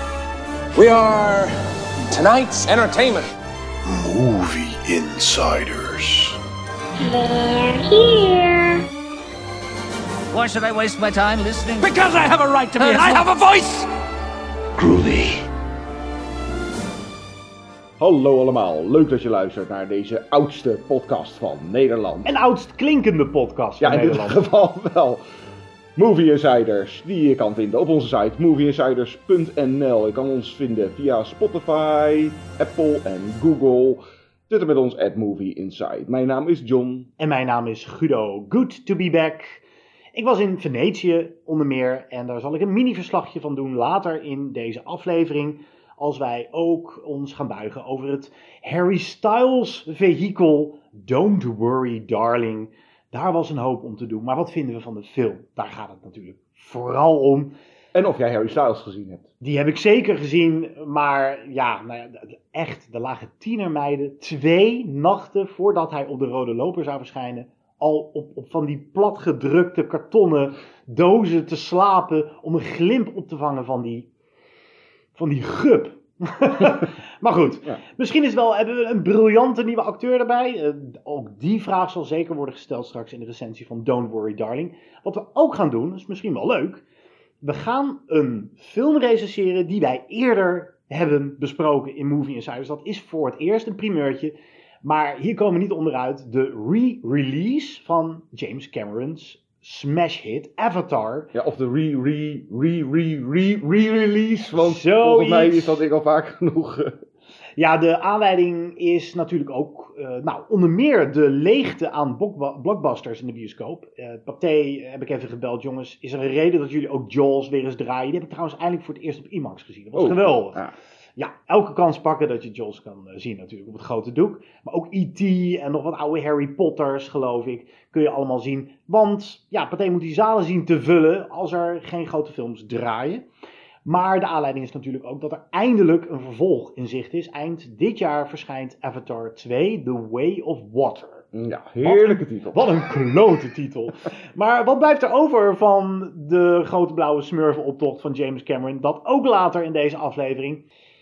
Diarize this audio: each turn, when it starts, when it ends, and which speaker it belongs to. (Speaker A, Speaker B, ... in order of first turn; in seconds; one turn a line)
Speaker A: 0.8-1.5
Speaker A: 2.1-3.3
Speaker B: 3.9-6.4
Speaker C: 7.0-8.9
Speaker C: 10.3-13.9
Speaker B: 14.8-15.4
Speaker D: 18.0-22.4
Speaker E: 22.2-24.4
Speaker D: 23.8-25.2
Speaker D: 26.0-37.1
Speaker E: 37.2-39.6
Speaker E: 40.1-57.5
Speaker D: 57.9-59.3
Speaker E: 59.4-74.1
Speaker E: 75.2-86.8
Speaker E: 87.4-101.3
Speaker D: 101.3-106.9
Speaker E: 104.6-105.8
Speaker E: 107.6-120.6
Speaker D: 120.0-120.7
Speaker E: 121.2-133.2
Speaker E: 133.9-141.3
Speaker D: 141.3-142.8
Speaker E: 141.8-150.7